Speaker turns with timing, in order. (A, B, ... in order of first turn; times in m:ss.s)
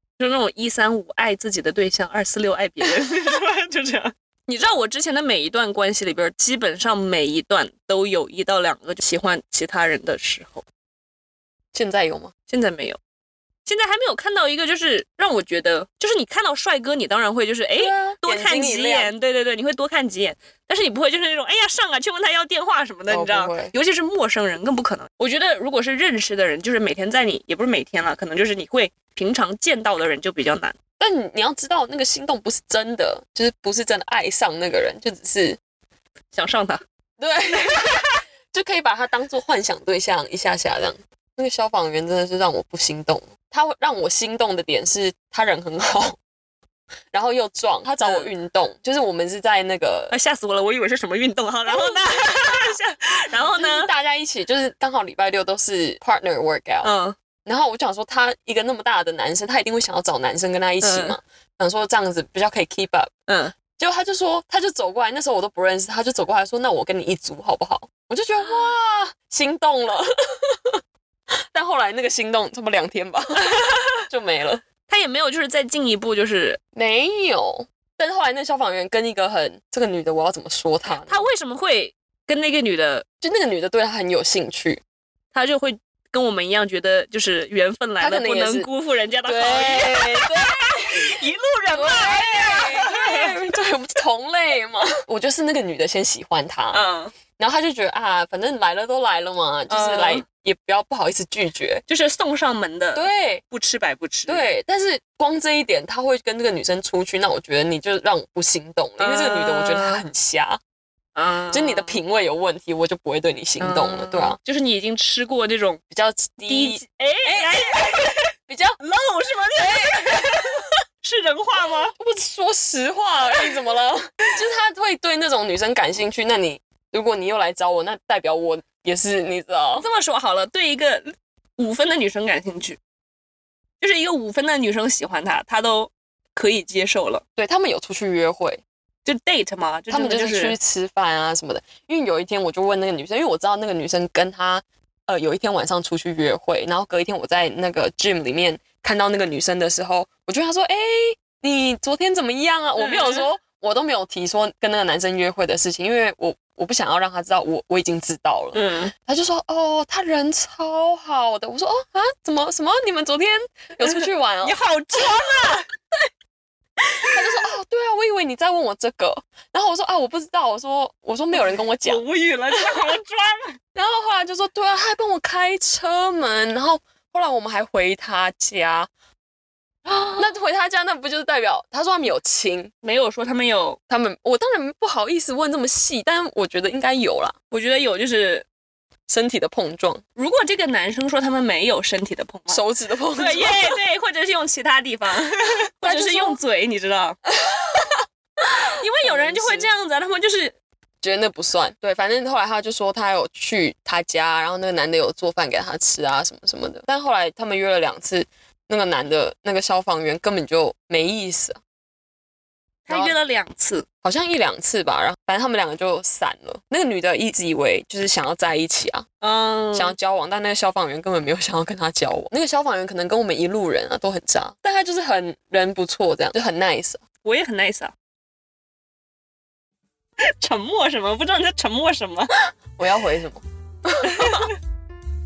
0:00.2-0:10.6 A
0:11.7-0:12.3 B
0:12.5-0:13.0 A
0:13.7-0:30.8 A
0:17.8-0:19.1 B
0:23.1-0:23.8 B
0:31.0-0:35.6 B
0:36.3-0:36.8 A
0:37.2-0:46.2 B
0:47.1-0:50.1 B
0:48.0-0:48.3 A
0:50.1-0:53.9 A
0:51.7-0:52.7 B
0:53.5-0:56.9 B
0:56.8-0:57.2 A
0:57.4-1:03.1 B
1:00.8-1:01.2 A
1:03.3-1:03.5 A
1:03.8-1:10.8 B
1:11.5-1:14.6 B
1:13.4-1:14.0 A
1:14.9-1:16.6 A
1:16.7-1:21.3 B
1:21.0-1:23.0 A
1:23.2-1:24.8 B
1:25.3-1:33.3 A
1:28.0-1:28.7 B
1:29.2-1:31.1 B
1:31.7-1:36.8 B
1:36.7-1:37.1 A
1:37.4-1:41.8 B
1:39.7-1:40.2 A
1:41.9-1:44.5 A
1:43.0-1:43.4 B
1:44.3-1:50.6 B
1:49.0-1:50.0 A
1:51.2-1:52.0 A
1:51.5-1:54.4 B
1:53.6-1:55.8 A
1:55.9-1:58.8 B
1:56.4-2:01.9 A
1:59.6-2:00.7 B
2:01.9-2:09.9 B
2:09.8-2:12.8 A
2:13.8-2:17.2 A
2:17.4-2:18.6 B
2:19.0-2:20.6 A
2:19.9-2:45.4 B
2:32.8-2:33.3 A
2:38.5-2:38.9 A
2:43.8-2:45.7 A
2:47.0-2:52.0 B
2:51.4-2:53.6 A
2:53.8-2:58.9 B
2:59.9-3:00.3 A
3:00.2-3:02.7 B
3:02.8-3:03.8 A
3:03.9-3:07.4 B
3:07.5-3:08.5 A
3:09.1-3:10.0 B
3:10.2-3:17.2 A
3:12.5-3:13.8 B
3:15.8-3:16.4 B
3:17.4-3:18.0 B
3:18.8-3:20.6 A
3:19.0-3:19.7 B
3:21.0-3:31.6 B
3:32.9-3:33.9 A
3:32.9-3:33.2 B
3:34.0-3:39.1 B
3:39.2-3:40.0 A
3:39.7-3:47.0 B
3:47.2-3:47.9 A
3:50.2-3:52.3 A
3:52.8-3:54.5 B
3:54.1-3:54.5 A